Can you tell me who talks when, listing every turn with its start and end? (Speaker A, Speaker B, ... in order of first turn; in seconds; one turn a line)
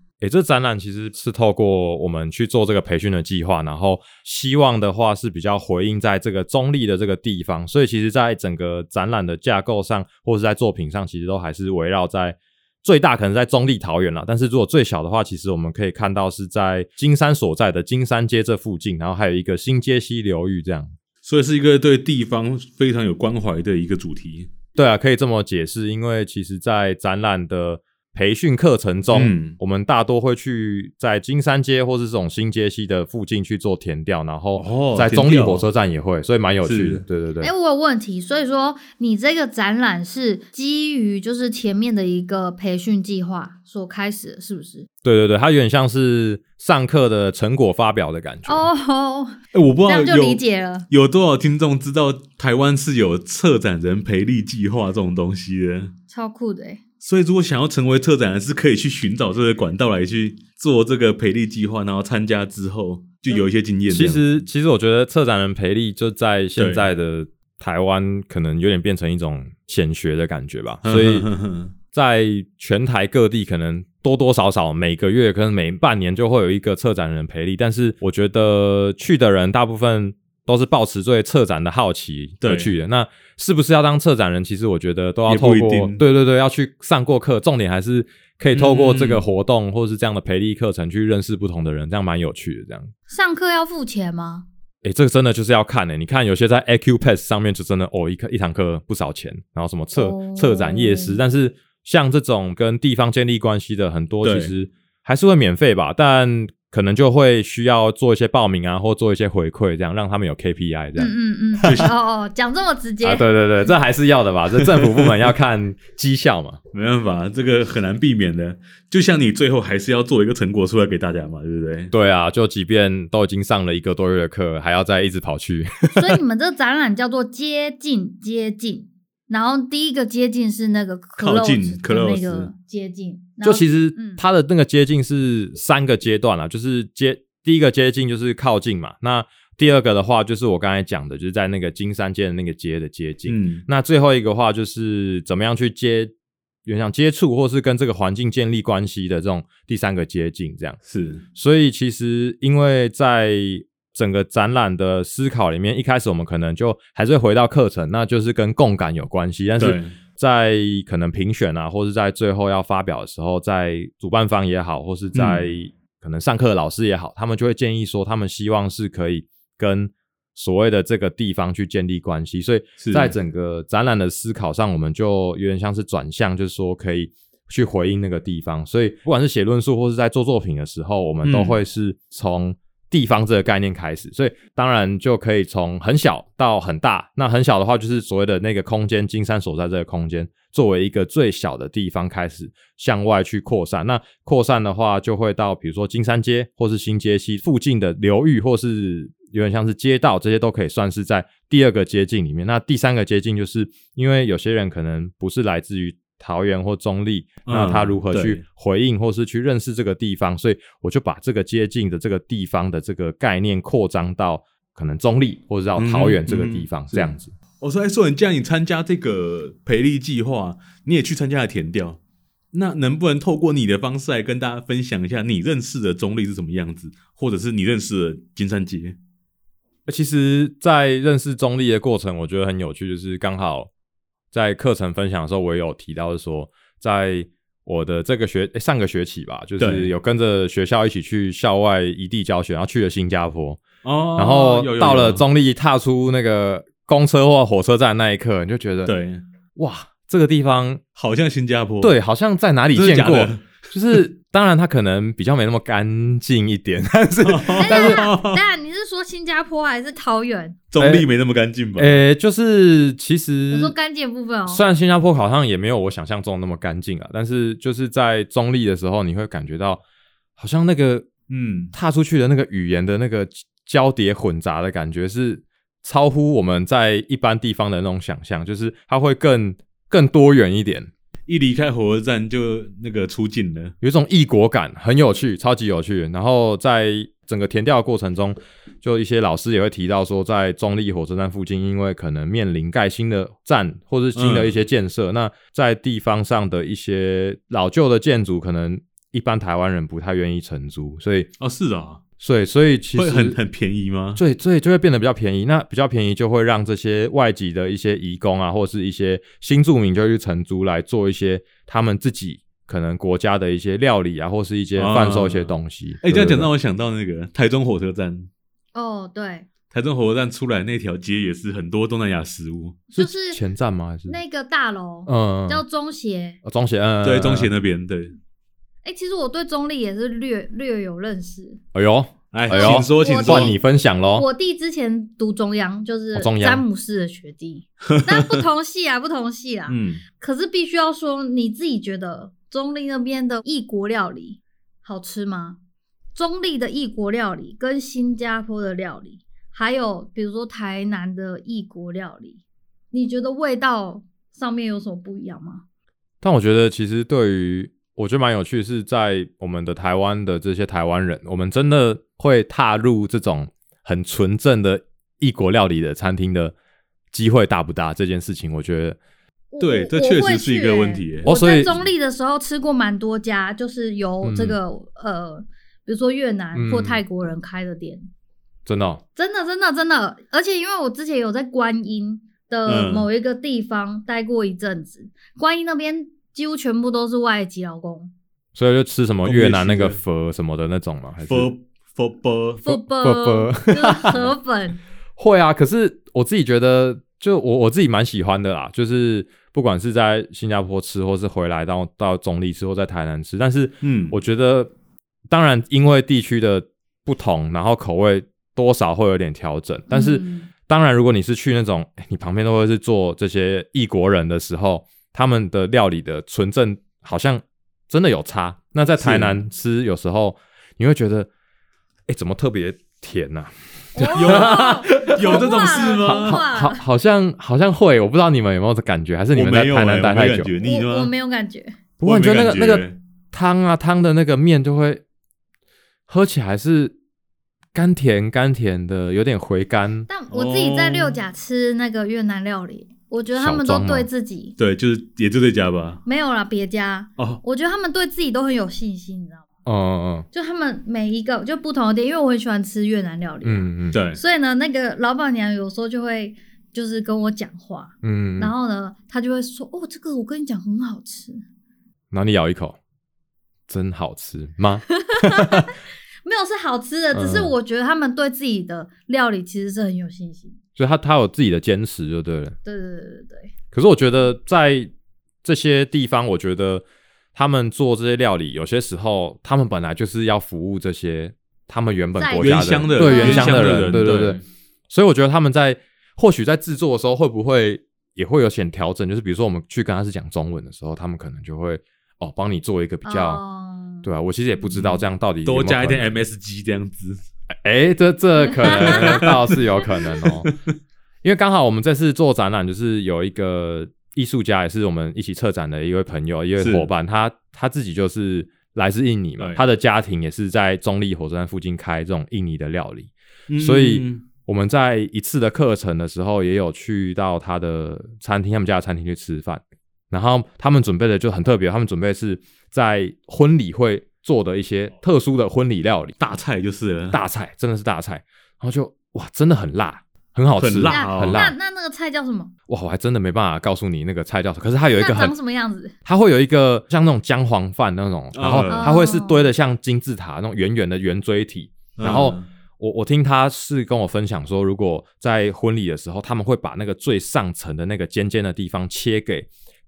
Speaker A: 0.2-20.9
Speaker B: 21.2-24.5
Speaker A: 24.7-37.5
Speaker B: 29.1-29.6
Speaker B: 34.6-35.6
Speaker B: 36.6-37.0
Speaker C: 37.4-44.9
Speaker A: 45.0-48.7
Speaker C: 48.5-50.9
Speaker B: 49.5-55.9
Speaker C: 56.1-56.8
Speaker B: 57.0-64.2
Speaker A: 63.9-71.3
Speaker B: 66.5-66.8
Speaker B: 70.8-71.7
Speaker A: 71.9-92.9
Speaker B: 82.4-82.7
Speaker B: 85.3-86.0
Speaker B: 88.5-89.2
Speaker C: 93.1-94.5
Speaker A: 94.8-111.9
Speaker C: 100.0-101.2
Speaker B: 104.2-104.5
Speaker C: 111.0-113.7
Speaker B: 111.6-111.9
Speaker A: 113.0-116.6
Speaker B: 114.5-115.2
Speaker B: 116.7-121.9
Speaker A: 121.9-126.1
Speaker C: 125.9-134.2
Speaker B: 131.2-132.5
Speaker A: 133.4-146.1
Speaker B: 143.2-143.6
Speaker A: 146.6-150.8
Speaker B: 150.8-151.2
Speaker A: 151.3-217.3
Speaker B: 159.6-159.9
Speaker B: 165.1-165.4
Speaker B: 172.8-173.1
Speaker B: 181.2-181.6
Speaker B: 207.4-208.4
Speaker B: 215.8-222.0
Speaker B: 222.5-229.0
Speaker A: 229.9-233.7
Speaker A: 234.3-243.6
Speaker B: 239.6-239.9
Speaker B: 243.8-245.2
Speaker A: 244.2-248.9
Speaker B: 248.8-249.2
Speaker A: 249.6-250.8
Speaker B: 250.9-251.9
Speaker A: 251.8-258.1
Speaker B: 252.7-253.7
Speaker B: 257.2-258.4
Speaker C: 257.6-260.6
Speaker B: 260.7-262.0
Speaker A: 260.8-261.1
Speaker A: 261.8-263.7
Speaker C: 263.5-264.6
Speaker A: 264.5-269.8
Speaker A: 270.4-271.1
Speaker B: 271.3-271.7
Speaker A: 271.7-280.9
Speaker B: 281.3-283.7
Speaker A: 283.8-301.3
Speaker B: 294.1-294.5
Speaker B: 301.4-302.0
Speaker A: 302.2-303.4
Speaker B: 302.9-304.2
Speaker A: 304.1-316.5
Speaker B: 314.8-318.3
Speaker C: 318.7-319.4
Speaker B: 319.7-322.8
Speaker C: 322.9-323.4
Speaker A: 322.9-324.2
Speaker C: 324.1-326.4
Speaker A: 325.1-325.6
Speaker A: 326.4-327.5
Speaker B: 327.0-328.1
Speaker C: 328.8-331.6
Speaker A: 331.7-334.2
Speaker B: 332.3-333.5
Speaker C: 332.5-333.5
Speaker C: 334.1-345.6
Speaker A: 336.1-336.6
Speaker B: 337.9-338.4
Speaker B: 339.7-340.0
Speaker C: 346.1-355.6
Speaker A: 356.2-366.5
Speaker A: 367.1-369.0
Speaker C: 369.5-378.1
Speaker B: 369.6-371.3
Speaker A: 371.2-371.8
Speaker A: 374.2-374.6
Speaker A: 376.5-377.0
Speaker A: 378.6-379.0
Speaker C: 379.2-388.1
Speaker B: 382.6-383.1
Speaker A: 388.5-391.5
Speaker B: 389.2-390.0
Speaker B: 391.3-392.8
Speaker C: 392.6-394.8
Speaker A: 392.8-394.3
Speaker A: 395.2-404.7
Speaker B: 403.8-404.1
Speaker A: 405.3-421.3
Speaker C: 409.9-410.5
Speaker B: 419.0-419.4
Speaker A: 422.1-430.5
Speaker C: 423.9-426.8
Speaker B: 424.1-426.4
Speaker B: 429.3-431.1
Speaker C: 430.6-431.7
Speaker A: 432.0-435.0
Speaker B: 432.0-432.9
Speaker A: 436.1-436.9
Speaker A: 437.7-440.1
Speaker C: 440.1-444.5
Speaker B: 440.3-441.2
Speaker A: 443.4-444.1
Speaker B: 444.6-446.0
Speaker C: 446.0-449.4
Speaker A: 449.6-450.3
Speaker C: 450.3-461.4
Speaker A: 453.4-454.0
Speaker B: 453.9-454.2
Speaker A: 458.0-458.5
Speaker A: 462.1-462.8
Speaker A: 463.7-465.7
Speaker C: 465.0-470.6
Speaker A: 467.1-467.5
Speaker A: 470.8-472.6
Speaker C: 472.6-473.5
Speaker A: 473.7-474.9
Speaker A: 475.4-493.4
Speaker C: 482.1-483.9
Speaker B: 482.4-484.4
Speaker C: 493.0-494.1
Speaker A: 494.0-496.0
Speaker B: 494.7-497.2
Speaker A: 497.6-500.5
Speaker C: 498.4-499.3
Speaker B: 498.8-500.5
Speaker A: 501.2-526.1
Speaker B: 506.6-506.9
Speaker B: 513.5-514.2
Speaker B: 526.2-527.2
Speaker A: 527.1-531.5
Speaker B: 530.6-531.4
Speaker C: 530.9-532.5
Speaker A: 532.7-535.3
Speaker C: 535.0-535.9
Speaker A: 536.0-549.5
Speaker B: 538.3-538.9
Speaker C: 538.6-539.5
Speaker B: 542.0-542.5